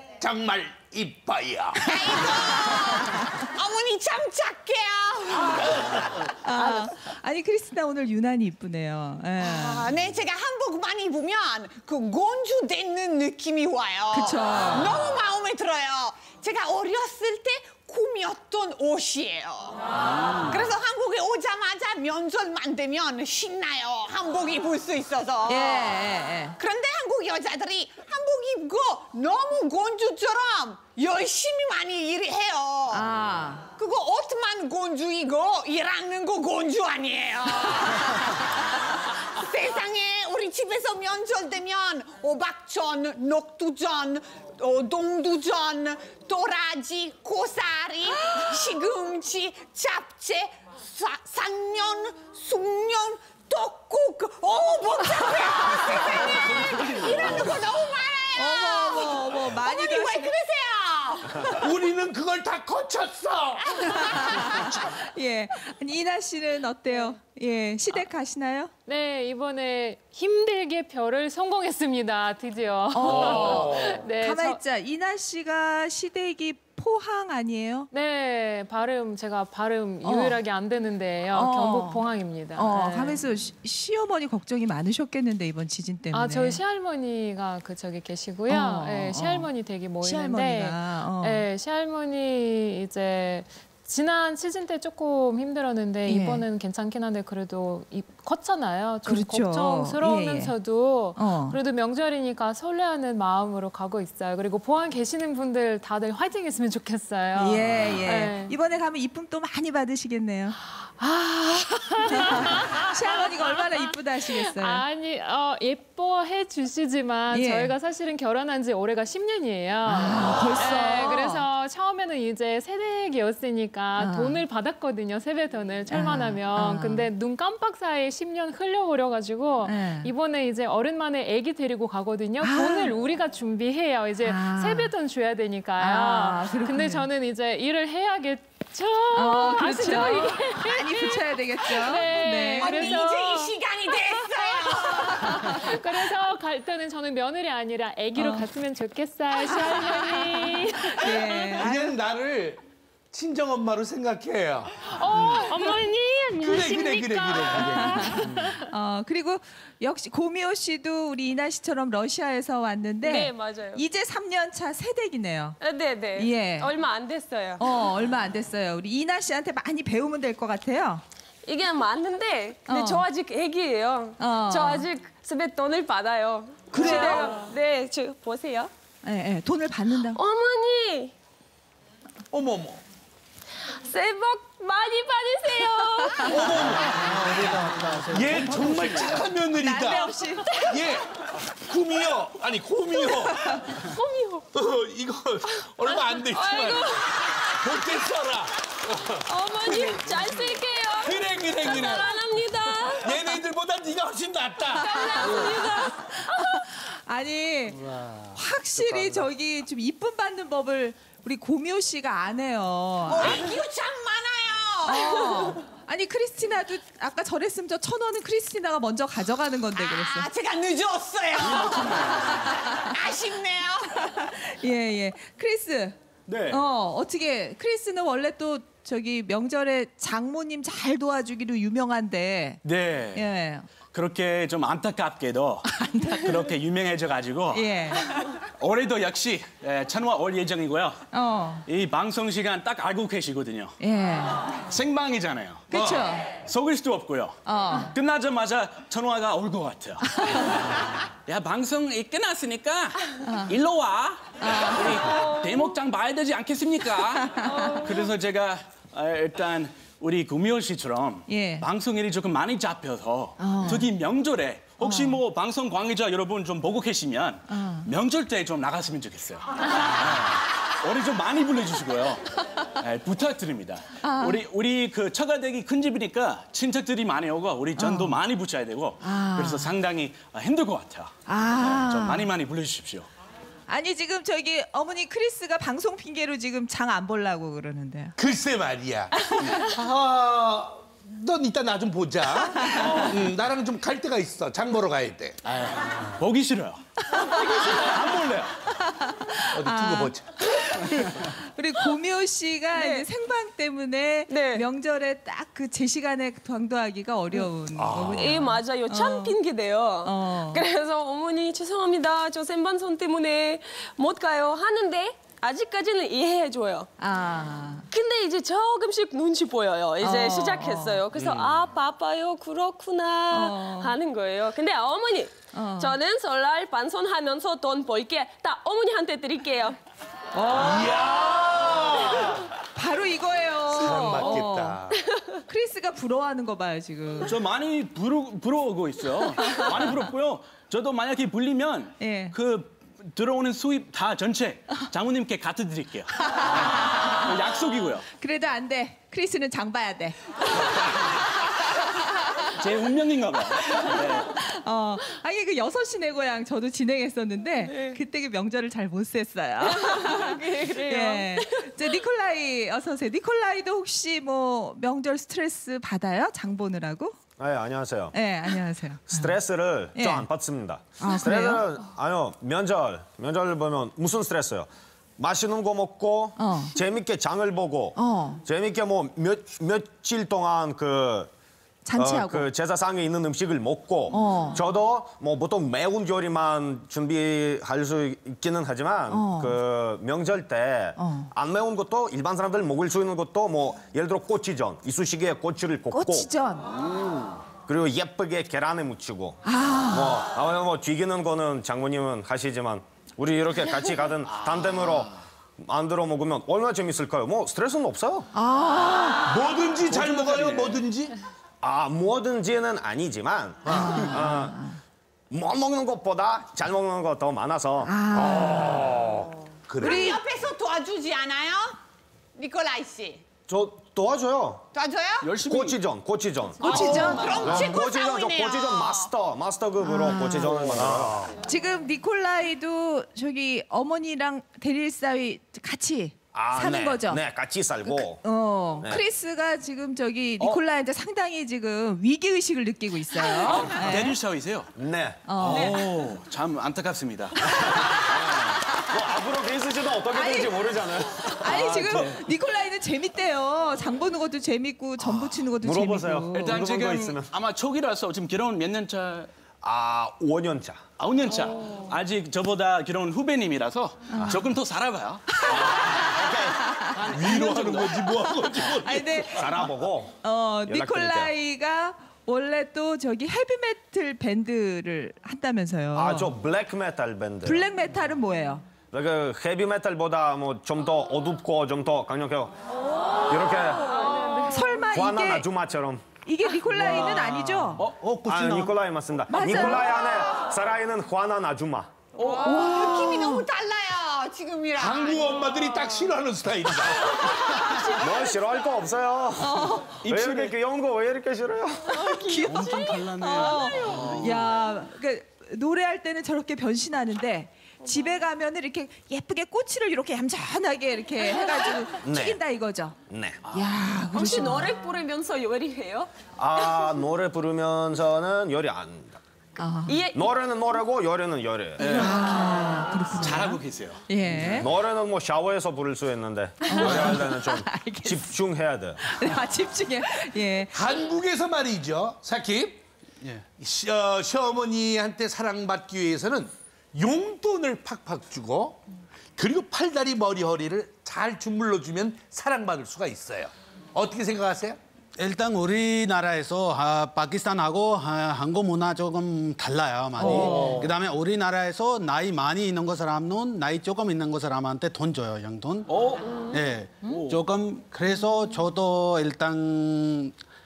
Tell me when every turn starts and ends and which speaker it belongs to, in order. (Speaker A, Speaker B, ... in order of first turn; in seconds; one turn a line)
Speaker A: 0.2-2.0
Speaker B: 1.8-6.3
Speaker A: 5.5-6.0
Speaker C: 6.4-9.8
Speaker B: 9.4-26.0
Speaker C: 14.1-14.9
Speaker C: 25.5-26.6
Speaker B: 26.6-33.0
Speaker C: 32.9-33.7
Speaker B: 33.8-61.6
Speaker C: 58.4-60.3
Speaker A: 61.6-63.7
Speaker B: 63.8-64.4
Speaker C: 63.9-68.7
Speaker D: 68.9-74.6
Speaker C: 72.9-77.9
Speaker A: 73.0-74.0
Speaker D: 77.9-83.2
Speaker C: 80.0-80.4
Speaker C: 81.3-82.0
Speaker C: 82.5-86.6
Speaker D: 86.1-108.5
Speaker C: 88.5-89.5
Speaker C: 90.0-91.4
Speaker C: 96.0-96.4
Speaker C: 99.0-100.5
Speaker C: 101.2-101.6
Speaker C: 107.3-110.6
Speaker A: 107.7-108.0
Speaker D: 111.0-151.6
Speaker C: 112.0-114.8
Speaker C: 117.3-117.7
Speaker C: 119.8-121.4
Speaker C: 124.0-124.4
Speaker C: 125.9-127.1
Speaker C: 129.6-130.1
Speaker C: 132.4-132.9
Speaker C: 134.2-134.9
Speaker C: 135.8-137.1
Speaker C: 139.1-142.9
Speaker B: 142.6-145.7
Speaker C: 145.1-145.6
Speaker C: 148.2-148.5
Speaker C: 149.4-152.0
Speaker A: 151.5-152.6
Speaker A: 153.1-155.6
Speaker D: 154.9-158.6
Speaker A: 156.4-158.5
Speaker C: 157.7-165.6
Speaker E: 163.0-163.8
Speaker E: 165.6-167.7
Speaker C: 166.1-166.7
Speaker C: 167.6-171.0
Speaker E: 171.4-178.7
Speaker C: 172.7-173.0
Speaker C: 174.2-174.8
Speaker C: 176.7-177.4
Speaker C: 179.0-180.2
Speaker E: 180.1-181.1
Speaker A: 182.3-182.8
Speaker E: 183.8-186.6
Speaker A: 186.2-190.1
Speaker F: 186.8-189.2
Speaker C: 189.5-190.7
Speaker E: 190.4-190.8
Speaker A: 190.6-193.6
Speaker E: 193.0-194.5
Speaker A: 194.5-202.1
Speaker E: 195.5-198.0
Speaker E: 199.2-203.4
Speaker A: 202.8-205.7
Speaker E: 204.7-206.7
Speaker C: 204.8-205.4
Speaker C: 206.0-207.8
Speaker A: 207.8-209.2
Speaker C: 208.3-213.4
Speaker B: 213.1-215.5
Speaker C: 214.8-220.3
Speaker B: 219.7-224.2
Speaker C: 224.0-226.0
Speaker G: 226.3-226.6
Speaker C: 226.5-232.6
Speaker G: 232.6-233.2
Speaker C: 233.1-233.7
Speaker G: 233.9-241.1
Speaker C: 235.7-236.4
Speaker C: 237.5-238.1
Speaker C: 241.1-241.6
Speaker G: 241.7-243.8
Speaker C: 243.8-244.5
Speaker G: 244.7-250.7
Speaker C: 245.7-246.3
Speaker C: 247.4-247.9
Speaker C: 250.2-250.5
Speaker G: 251.2-283.1
Speaker C: 253.2-253.5
Speaker C: 254.4-255.1
Speaker C: 261.3-261.6
Speaker C: 263.4-263.9
Speaker C: 264.8-265.2
Speaker C: 267.5-267.9
Speaker C: 274.0-274.4
Speaker C: 277.8-278.2
Speaker C: 279.0-279.7
Speaker C: 281.3-282.3
Speaker C: 283.7-288.1
Speaker A: 288.2-295.4
Speaker C: 292.4-293.0
Speaker G: 295.4-298.6
Speaker C: 297.1-297.7
Speaker C: 298.8-309.4
Speaker A: 299.5-300.4
Speaker E: 302.7-303.1
Speaker E: 304.3-304.6
Speaker A: 307.7-308.4
Speaker E: 308.1-316.9
Speaker C: 310.0-310.6
Speaker C: 317.0-317.9
Speaker E: 317.9-329.8
Speaker C: 320.0-321.0
Speaker A: 321.2-321.5
Speaker C: 323.3-323.9
Speaker C: 325.5-325.9
Speaker A: 330.4-332.5
Speaker C: 332.7-334.8
Speaker A: 333.7-335.0
Speaker E: 334.0-335.2
Speaker C: 335.5-337.3
Speaker G: 337.2-348.1
Speaker C: 339.5-339.9
Speaker C: 342.0-342.3
Speaker C: 346.2-347.3
Speaker C: 348.2-351.0
Speaker C: 351.9-352.4
Speaker G: 352.5-354.3
Speaker C: 353.7-367.2
Speaker E: 357.6-358.0
Speaker E: 359.6-361.9
Speaker H: 367.4-368.1
Speaker C: 368.1-369.4
Speaker H: 369.1-381.3
Speaker C: 369.9-370.3
Speaker C: 371.0-371.6
Speaker C: 376.4-376.7
Speaker C: 377.9-378.4
Speaker C: 381.8-382.5
Speaker H: 381.9-396.3
Speaker C: 384.1-384.6
Speaker C: 389.1-389.6
Speaker C: 391.0-391.3
Speaker C: 395.9-396.7
Speaker H: 396.9-399.4
Speaker C: 399.4-400.2
Speaker H: 399.9-408.3
Speaker C: 408.3-409.4
Speaker A: 409.2-411.1
Speaker H: 409.9-410.8
Speaker H: 411.6-414.6
Speaker A: 413.6-414.2
Speaker C: 413.8-414.7
Speaker H: 415.3-418.1
Speaker C: 417.8-418.8
Speaker A: 418.1-420.2
Speaker B: 419.8-421.8
Speaker C: 419.8-420.2
Speaker B: 422.3-423.2
Speaker H: 423.5-424.7
Speaker B: 424.7-425.3
Speaker G: 425.2-425.8
Speaker H: 425.4-431.3
Speaker C: 426.6-427.6
Speaker B: 426.6-429.1
Speaker C: 429.8-430.8
Speaker A: 430.5-431.3
Speaker C: 431.4-437.2
Speaker H: 436.3-438.2
Speaker C: 437.8-444.1
Speaker G: 443.3-444.7
Speaker H: 444.8-445.5
Speaker C: 445.2-445.8
Speaker G: 445.4-447.4
Speaker H: 447.5-452.1
Speaker C: 450.1-456.6
Speaker G: 451.4-452.2
Speaker H: 455.2-457.3
Speaker G: 456.3-459.3
Speaker H: 459.6-460.8
Speaker G: 461.0-466.3
Speaker C: 464.1-464.4
Speaker H: 465.4-466.8
Speaker G: 466.8-468.2
Speaker A: 467.1-469.5
Speaker C: 468.6-469.7
Speaker H: 469.3-471.3
Speaker C: 470.2-476.3
Speaker H: 475.9-477.6
Speaker C: 477.4-478.6
Speaker H: 478.9-482.6
Speaker H: 483.3-484.0
Speaker E: 483.9-484.7
Speaker C: 484.5-485.5
Speaker H: 484.9-486.1
Speaker C: 486.2-487.8
Speaker G: 486.7-488.6
Speaker H: 488.2-492.1
Speaker C: 489.3-490.0
Speaker G: 492.1-492.7
Speaker C: 492.2-493.4
Speaker B: 492.3-495.4
Speaker A: 494.8-497.6
Speaker E: 497.6-498.3
Speaker H: 498.0-502.1
Speaker C: 499.4-500.0
Speaker G: 500.0-500.5
Speaker E: 501.9-504.0
Speaker C: 502.2-513.0
Speaker F: 502.4-504.2
Speaker A: 504.1-504.4
Speaker H: 512.0-512.4
Speaker H: 513.1-513.4
Speaker G: 513.4-513.7
Speaker C: 513.5-514.8
Speaker E: 514.1-516.1
Speaker H: 516.4-519.2
Speaker C: 519.6-520.0
Speaker E: 519.9-520.3
Speaker H: 520.1-522.1
Speaker G: 521.8-522.3
Speaker C: 521.9-524.7
Speaker G: 523.1-524.0
Speaker F: 524.3-524.5
Speaker H: 524.6-529.3
Speaker C: 526.7-528.3
Speaker C: 529.0-530.7
Speaker A: 530.7-532.8
Speaker F: 533.2-533.5
Speaker A: 533.6-538.8
Speaker A: 539.4-544.8
Speaker F: 545.2-560.3
Speaker G: 550.2-550.9
Speaker C: 550.2-550.8
Speaker G: 555.9-556.4
Speaker G: 557.0-557.4